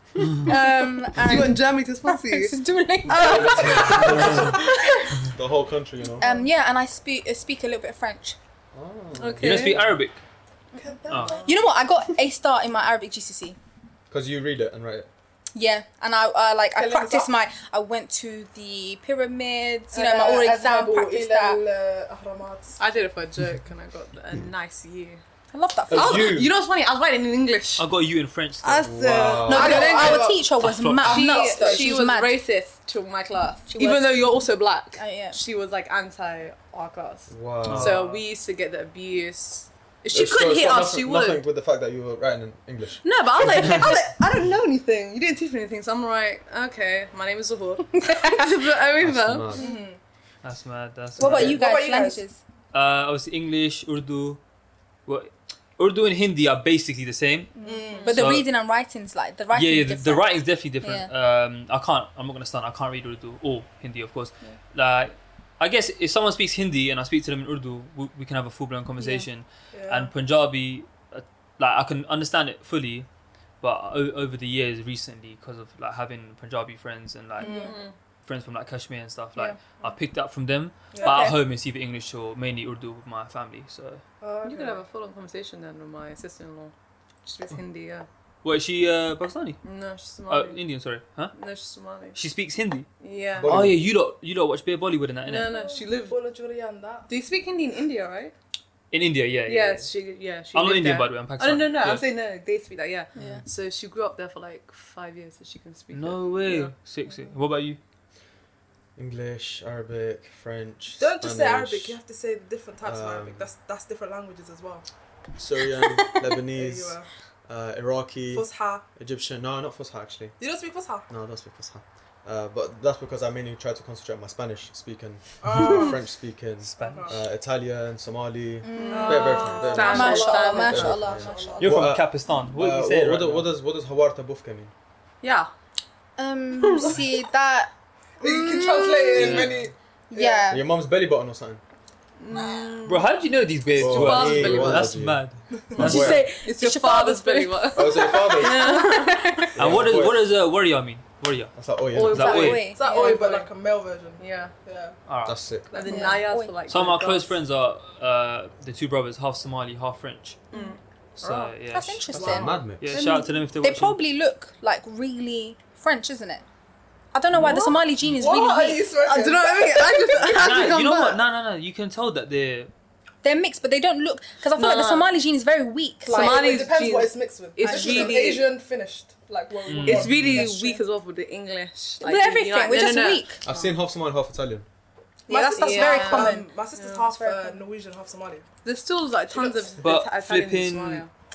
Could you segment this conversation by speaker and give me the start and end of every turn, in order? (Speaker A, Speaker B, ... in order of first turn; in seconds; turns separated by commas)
Speaker A: 0.2-5.1, Speaker B: 1.0-2.5, Speaker C: 3.1-4.6, Speaker D: 3.2-4.5, Speaker B: 3.3-4.2, Speaker C: 5.2-6.2, Speaker A: 6.2-8.4, Speaker C: 8.7-9.9, Speaker B: 9.2-9.9, Speaker E: 9.4-10.2, Speaker D: 10.7-11.6, Speaker E: 11.1-11.3, Speaker A: 11.4-13.6, Speaker C: 14.1-15.1, Speaker A: 15.5-21.6, Speaker D: 16.7-17.3, Speaker D: 19.9-22.8, Speaker B: 22.8-25.2, Speaker A: 25.5-26.4, Speaker C: 25.9-26.5, Speaker B: 25.9-27.9, Speaker E: 27.8-28.9, Speaker B: 28.6-30.3, Speaker C: 28.8-30.2, Speaker D: 29.2-32.0, Speaker A: 29.4-32.3, Speaker E: 30.6-31.2, Speaker B: 31.0-41.4, Speaker A: 33.7-34.3, Speaker A: 35.0-35.4, Speaker C: 37.3-38.0, Speaker E: 37.6-38.2, Speaker C: 40.1-43.7, Speaker B: 43.0-49.6, Speaker A: 47.9-48.5, Speaker C: 49.0-49.7, Speaker D: 49.6-50.0, Speaker E: 50.4-51.6, Speaker D: 51.2-52.2, Speaker A: 51.2-52.4, Speaker E: 52.7-54.4, Speaker E: 55.0-57.5, Speaker A: 57.5-61.1, Speaker D: 57.6-58.3, Speaker B: 57.7-58.2, Speaker E: 58.1-58.5, Speaker E: 59.5-73.1, Speaker A: 69.0-69.3, Speaker D: 69.7-70.1, Speaker E: 73.6-77.7, Speaker D: 77.4-77.8, Speaker B: 77.4-77.9, Speaker E: 78.2-84.0, Speaker D: 80.9-81.3, Speaker A: 81.0-81.3, Speaker D: 84.2-84.8, Speaker B: 84.4-86.7, Speaker B: 87.2-88.1, Speaker E: 88.4-89.6, Speaker B: 89.6-90.6, Speaker E: 90.3-91.3, Speaker B: 91.3-92.2, Speaker E: 92.1-92.9, Speaker B: 93.0-93.6, Speaker C: 93.4-93.9, Speaker E: 93.4-95.5, Speaker B: 95.2-96.2, Speaker D: 95.5-97.1, Speaker B: 97.1-98.3, Speaker E: 98.9-99.9, Speaker B: 99.5-106.7, Speaker E: 100.5-102.0, Speaker A: 103.1-103.4, Speaker E: 105.9-107.8, Speaker C: 109.0-112.0, Speaker D: 111.0-114.8, Speaker C: 112.8-113.5, Speaker C: 115.4-117.0, Speaker D: 116.5-117.1, Speaker C: 117.5-120.3, Speaker D: 118.3-118.8, Speaker D: 120.4-121.1, Speaker C: 121.1-134.7, Speaker D: 125.4-126.0, Speaker E: 126.6-127.2, Speaker D: 126.8-127.2, Speaker A: 128.6-131.6, Speaker B: 128.8-130.9, Speaker D: 128.9-131.9, Speaker E: 131.6-133.5, Speaker B: 135.2-135.5, Speaker A: 136.2-137.7, Speaker B: 136.6-137.0, Speaker D: 138.2-140.5, Speaker A: 138.2-139.4, Speaker E: 139.1-139.6, Speaker C: 139.2-139.7, Speaker A: 140.1-140.7, Speaker C: 140.5-141.6, Speaker B: 142.2-143.1, Speaker E: 142.9-146.2, Speaker C: 143.8-145.2, Speaker B: 143.8-145.0, Speaker B: 145.7-149.5, Speaker C: 145.8-146.2, Speaker A: 145.8-149.7, Speaker C: 147.7-148.8, Speaker C: 149.5-150.3, Speaker E: 149.6-151.5, Speaker C: 151.5-152.5, Speaker B: 151.9-153.5, Speaker A: 152.1-153.2, Speaker E: 152.1-152.7, Speaker D: 152.7-154.9, Speaker B: 154.2-154.5, Speaker E: 155.1-155.4, Speaker C: 155.2-155.7, Speaker B: 155.7-157.3, Speaker A: 155.8-156.7, Speaker D: 155.8-156.1, Speaker E: 156.7-160.4, Speaker B: 160.5-161.5, Speaker E: 161.2-164.0, Speaker A: 161.7-166.4, Speaker C: 162.1-162.9, Speaker B: 162.9-163.2, Speaker A: 167.1-168.9, Speaker D: 168.1-170.7, Speaker B: 169.0-171.2, Speaker E: 170.3-172.7, Speaker A: 173.2-176.7, Speaker B: 174.5-175.1, Speaker B: 176.1-178.4, Speaker D: 176.1-180.8, Speaker A: 177.6-178.4, Speaker E: 179.7-180.4, Speaker B: 179.7-183.8, Speaker A: 182.0-183.4, Speaker C: 183.4-184.6, Speaker A: 185.3-187.6, Speaker B: 185.3-187.0, Speaker D: 185.3-188.4, Speaker B: 188.6-191.1, Speaker D: 189.3-189.7, Speaker E: 189.8-191.0